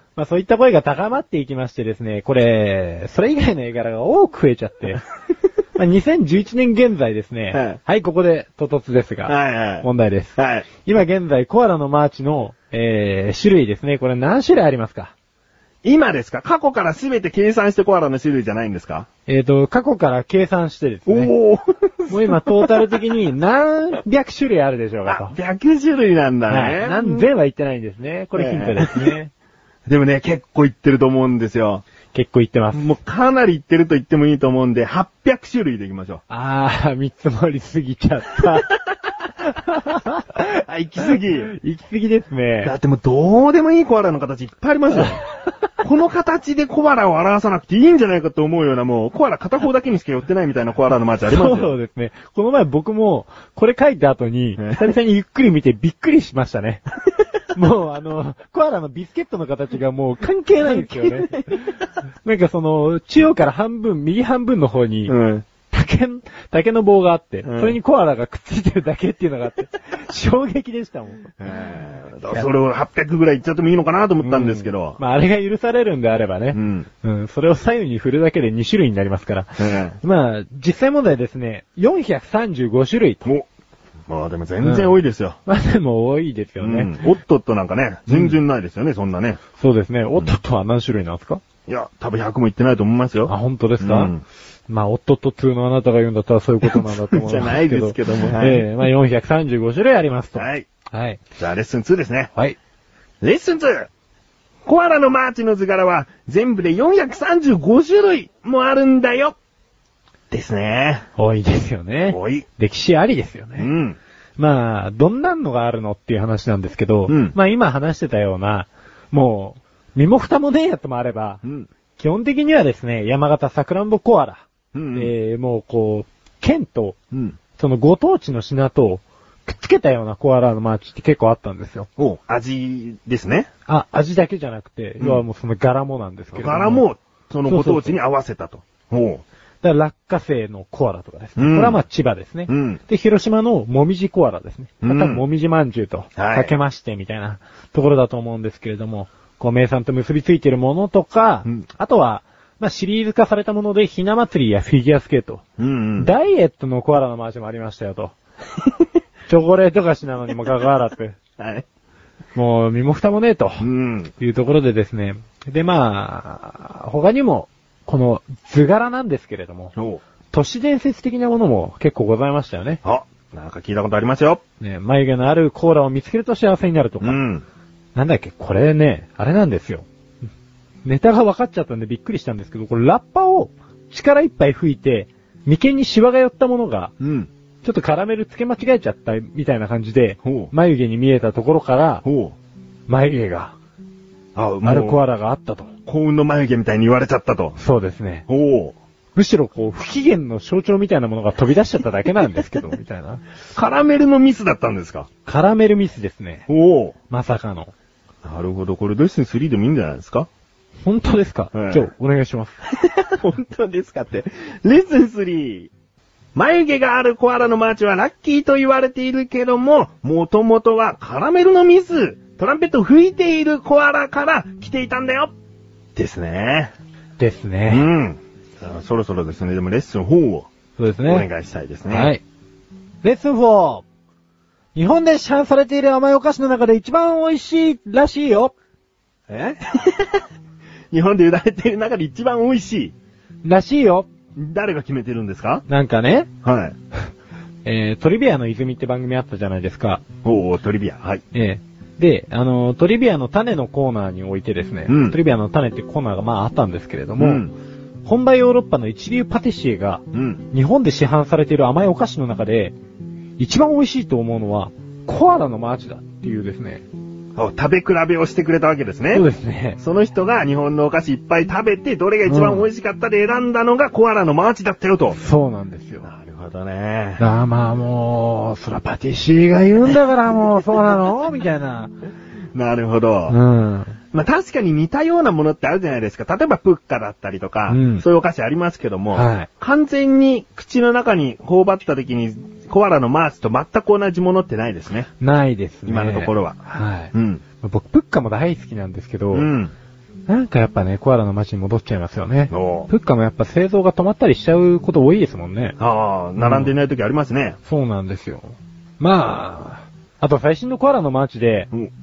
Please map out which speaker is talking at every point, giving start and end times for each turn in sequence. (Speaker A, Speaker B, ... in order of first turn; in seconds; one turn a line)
Speaker A: 0.1-5.0
Speaker A: 5.8-15.1
Speaker B: 7.5-7.8
Speaker B: 9.3-10.7
Speaker B: 15.8-19.1
Speaker A: 19.3-21.3
Speaker B: 21.1-22.9
Speaker A: 22.1-25.3
Speaker B: 25.1-27.3
Speaker A: 26.5-29.3
Speaker B: 28.4-29.1
Speaker B: 29.9-31.8
Speaker A: 32.1-32.9
Speaker B: 32.7-36.2
Speaker A: 36.3-38.7
Speaker A: 39.5-40.4
Speaker B: 40.5-41.5
Speaker A: 41.4-42.7
Speaker B: 42.6-45.2
Speaker B: 45.8-51.7
Speaker A: 51.2-56.9
Speaker B: 54.6-54.8
Speaker A: 57.5-65.1
Speaker B: 60.6-61.5
Speaker B: 65.1-65.5
Speaker A: 65.7-71.3
Speaker B: 67.4-67.8
Speaker B: 71.4-75.0
Speaker A: 74.2-83.3
Speaker B: 76.5-76.9
Speaker B: 79.6-80.0
Speaker B: 84.1-85.4
Speaker A: 84.6-84.9
Speaker A: 85.5-86.9
Speaker B: 86.6-89.4
Speaker A: 88.1-88.3
Speaker A: 89.6-91.4
Speaker B: 91.7-94.2
Speaker A: 93.3-94.1
Speaker A: 94.7-101.2
Speaker B: 96.7-98.6
Speaker B: 100.3-100.7
Speaker B: 101.4-102.3
Speaker B: 103.2-103.9
Speaker B: 104.6-109.3
Speaker B: 110.3-111.0
Speaker A: 111.2-113.7
Speaker B: 112.1-112.5
Speaker B: 113.6-114.0
Speaker A: 114.4-121.4
Speaker B: 117.1-117.3
Speaker A: 122.0-127.0
Speaker B: 124.7-125.1
Speaker B: 127.1-127.4
Speaker A: 127.6-131.9
Speaker B: 132.0-133.5
Speaker A: 133.7-136.8
Speaker B: 136.3-139.2
Speaker A: 137.4-137.9
Speaker A: 139.6-155.4
Speaker B: 141.4-141.8
Speaker B: 142.5-142.8
Speaker B: 144.8-145.2
Speaker B: 146.2-146.5
Speaker B: 155.6-156.1
Speaker A: 156.0-158.1
Speaker A: 159.3-161.2
Speaker B: 161.4-161.6
Speaker A: 162.3-163.7
Speaker B: 163.6-164.1
Speaker A: 164.2-169.7
Speaker B: 169.8-170.0
Speaker A: 170.3-172.8
Speaker B: 172.8-174.4
Speaker A: 174.6-177.2
Speaker B: 177.0-177.4
Speaker A: 177.9-179.8
Speaker A: 180.8-186.9
Speaker B: 187.0-187.3
Speaker A: 187.6-192.0
Speaker B: 190.2-190.5
Speaker B: 192.0-192.3
Speaker A: 192.9-193.5
Speaker B: 194.3-195.0
Speaker A: 194.6-195.7
Speaker B: 195.8-197.6
Speaker A: 197.6-198.2
Speaker B: 198.3-198.7
Speaker A: 199.1-203.2
Speaker B: 203.5-205.1
Speaker A: 205.2-206.5
Speaker B: 206.5-206.9
Speaker A: 207.1-207.7
Speaker B: 208.2-210.3
Speaker A: 210.8-212.6
Speaker B: 211.5-211.8
Speaker B: 212.7-215.7
Speaker B: 216.3-225.3
Speaker B: 225.9-226.7
Speaker A: 227.2-227.9
Speaker B: 227.7-230.5
Speaker A: 230.8-231.3
Speaker B: 231.0-232.1
Speaker A: 231.9-232.2
Speaker A: 233.0-233.8
Speaker A: 234.7-238.5
Speaker B: 239.3-240.2
Speaker B: 240.9-242.9
Speaker A: 243.4-244.1
Speaker B: 244.3-245.6
Speaker A: 245.7-246.3
Speaker B: 246.4-246.7
Speaker A: 247.6-250.0
Speaker B: 250.2-251.2
Speaker A: 251.3-257.4
Speaker B: 254.9-255.2
Speaker B: 257.2-257.5
Speaker A: 258.0-262.7
Speaker B: 260.1-260.4
Speaker A: 263.4-266.8
Speaker B: 267.4-269.3
Speaker A: 269.1-269.8
Speaker B: 269.8-275.2
Speaker A: 272.2-272.7
Speaker A: 275.1-276.1
Speaker B: 276.0-277.2
Speaker A: 277.2-281.9
Speaker B: 282.5-283.4
Speaker A: 283.3-284.0
Speaker B: 284.1-295.1
Speaker A: 287.7-288.0
Speaker A: 289.1-289.5
Speaker A: 295.2-299.5
Speaker B: 295.9-296.6
Speaker B: 297.1-297.4
Speaker B: 299.3-299.7
Speaker A: 300.3-305.8
Speaker B: 302.5-302.9
Speaker B: 305.8-307.6
Speaker A: 306.4-306.7
Speaker A: 307.6-311.7